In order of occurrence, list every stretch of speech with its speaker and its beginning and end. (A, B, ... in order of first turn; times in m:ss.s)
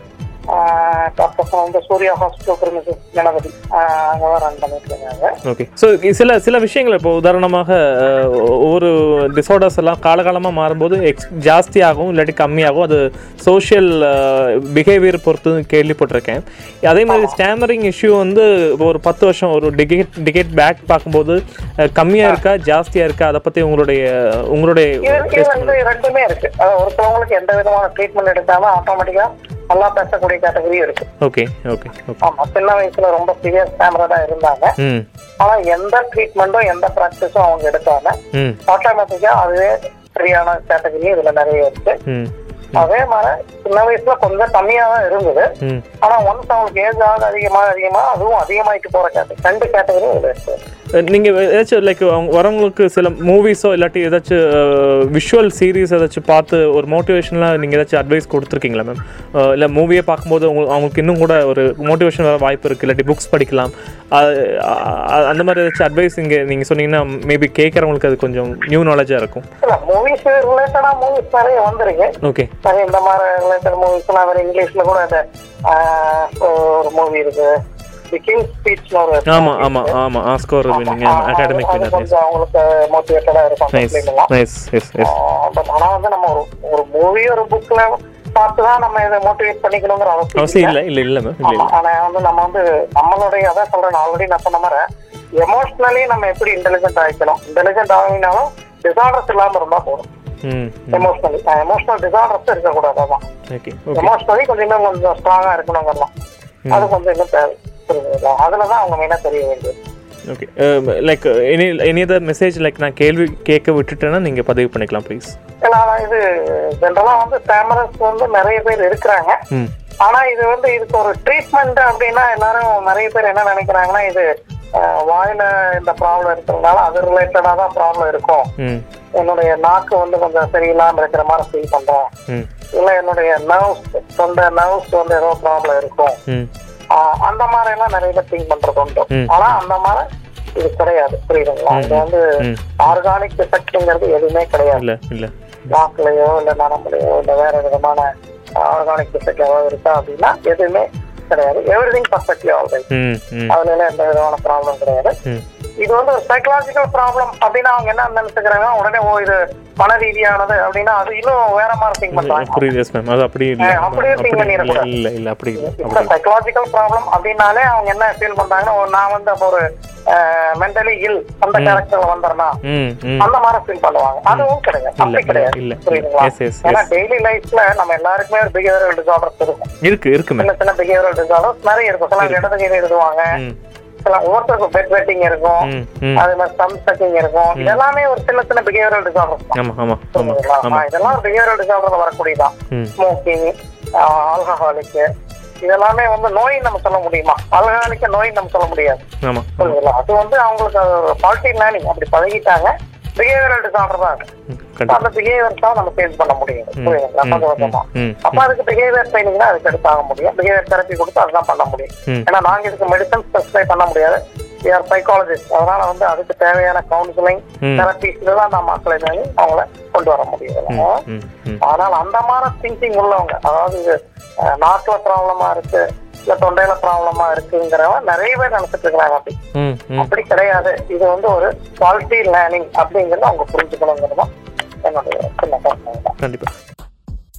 0:00.5-0:05.4 A
0:05.4-0:25.8 B
0:17.1-0:17.4 A
0:25.0-0:31.1 A
0:31.2-0:32.2 B
0:32.2-0:34.8 A
0:34.8-0:35.1 B
0:35.4-0:42.0 A
0:38.3-0:38.6 B
0:42.1-0:42.9 B
0:42.8-0:45.5 A
0:46.0-0:50.6 A
0:50.9-1:09.4 B
1:09.6-1:17.6 A
1:12.2-1:12.5 B
1:18.1-1:20.0 A
1:19.3-1:22.1 B
1:20.7-1:24.3 A
1:23.7-1:25.2 B
1:25.0-1:30.8 A
1:30.4-1:31.7 B
1:31.4-1:34.9 A
1:35.4-1:40.1 A
1:40.4-1:41.1 B
1:40.9-1:43.2 A
1:43.5-1:44.1 B
1:44.0-1:46.1 A
1:46.7-1:46.9 B
1:46.7-1:49.8 A
1:50.3-1:55.4 B
1:55.6-1:59.4 A
2:00.0-2:08.5 A
2:08.6-2:08.8 B
2:09.2-2:12.1 A
2:12.7-2:16.2 A
2:16.9-2:20.1 A
2:19.1-2:19.6 B
2:20.6-2:24.8 A
2:21.7-2:23.0 B
2:24.7-2:25.8 B
2:25.7-2:32.9 A
2:32.9-2:33.6 B
2:33.5-2:35.2 A
2:35.8-2:42.7 A
2:42.1-2:46.1 B
2:43.6-2:44.9 A
2:45.6-2:52.6 A
2:51.6-2:51.8 B
2:52.6-2:53.3 B
2:53.2-2:59.7 A
2:54.3-2:56.9 B
2:59.8-3:00.5 B
3:00.4-3:03.4 A
3:02.2-3:02.5 B
3:04.0-3:09.6 A
3:05.6-3:06.3 B
3:07.6-3:07.8 B
3:09.6-3:11.2 B
3:10.2-3:15.1 A
3:15.6-3:19.0 A
3:19.2-3:19.8 B
3:19.6-3:24.3 A
3:24.5-3:25.0 B
3:24.9-3:41.0 A
3:26.8-3:28.5 B
3:37.6-3:37.9 B
3:40.7-3:41.6 B
3:41.6-3:49.4 A
3:49.6-3:50.1 B
3:50.0-3:54.3 A
3:54.8-3:56.2 A
3:56.2-3:56.5 B